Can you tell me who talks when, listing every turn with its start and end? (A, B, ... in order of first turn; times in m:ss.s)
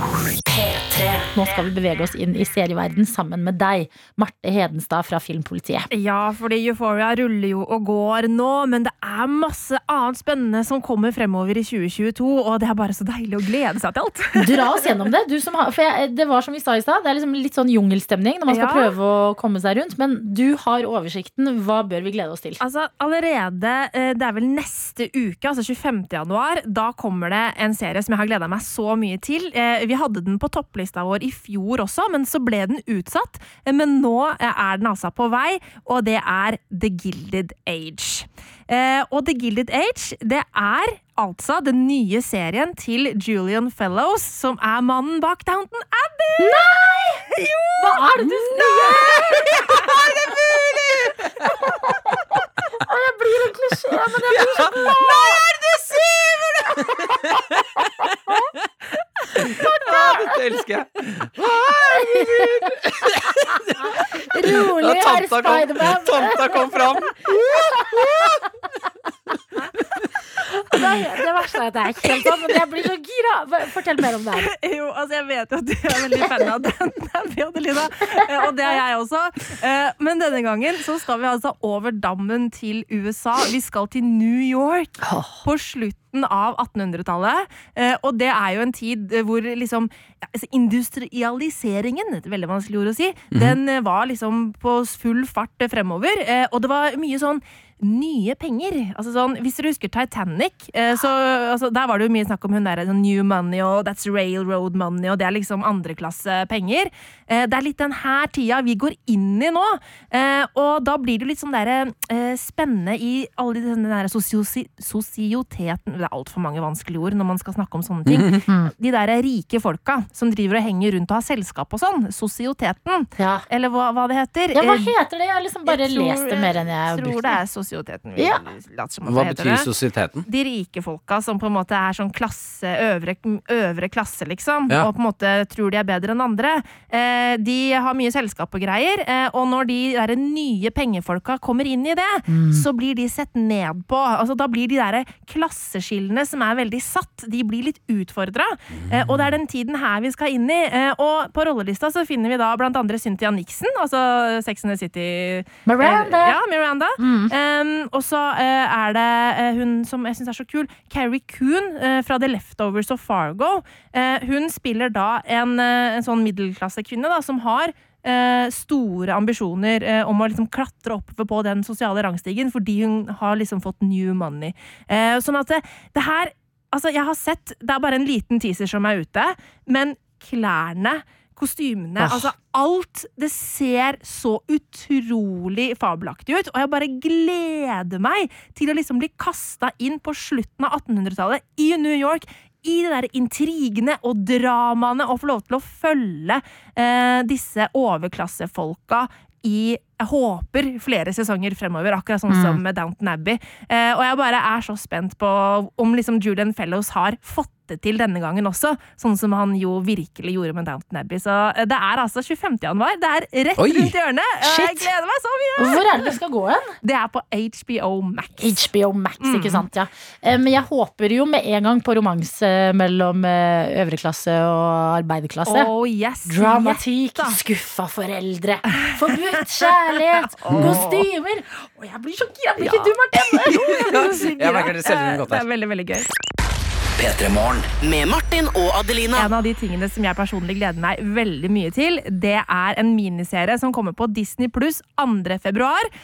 0:00.6-0:00.9 A
0:00.9-0:05.9 B
0:05.9-0:14.9 C
0:14.4-0:22.6 B
0:18.5-0:19.0 C
0:22.6-0:51.1 C
0:46.4-0:47.3 B
0:47.8-0:49.7 B
0:50.6-0:51.5 D
0:51.6-0:52.2 B
0:52.8-0:55.4 B
0:54.3-0:58.4 D
0:59.3-1:08.4 D
0:59.5-1:00.4 B
1:01.9-1:06.8 B
1:07.8-1:08.3 B
1:10.5-1:14.5 B
1:14.4-2:04.9 C
1:25.0-1:25.4 B
1:58.1-1:58.4 D
1:58.5-1:58.7 B
2:03.2-2:03.4 B
2:04.5-2:07.4 B
2:05.7-2:09.7 C
2:08.2-2:08.4 B
2:09.1-2:10.3 D
2:10.3-3:36.2 C
2:22.3-2:22.6 B
2:28.8-2:29.2 D
2:35.7-2:36.4 B
2:37.0-2:37.3 B
3:02.0-3:02.3 B
3:22.3-3:22.6 B
3:33.6-3:34.0 D
3:34.4-3:34.9 B
3:35.6-3:36.8 B
3:36.8-3:38.6 C
3:38.4-3:45.7 B
3:39.2-3:39.7 C
3:45.5-3:47.4 C
3:46.3-3:53.9 B
3:48.8-3:51.1 C
3:50.5-3:50.8 D
3:52.6-3:56.1 C
3:53.5-3:55.4 D
3:57.0-3:59.3 A
3:59.1-4:05.9 C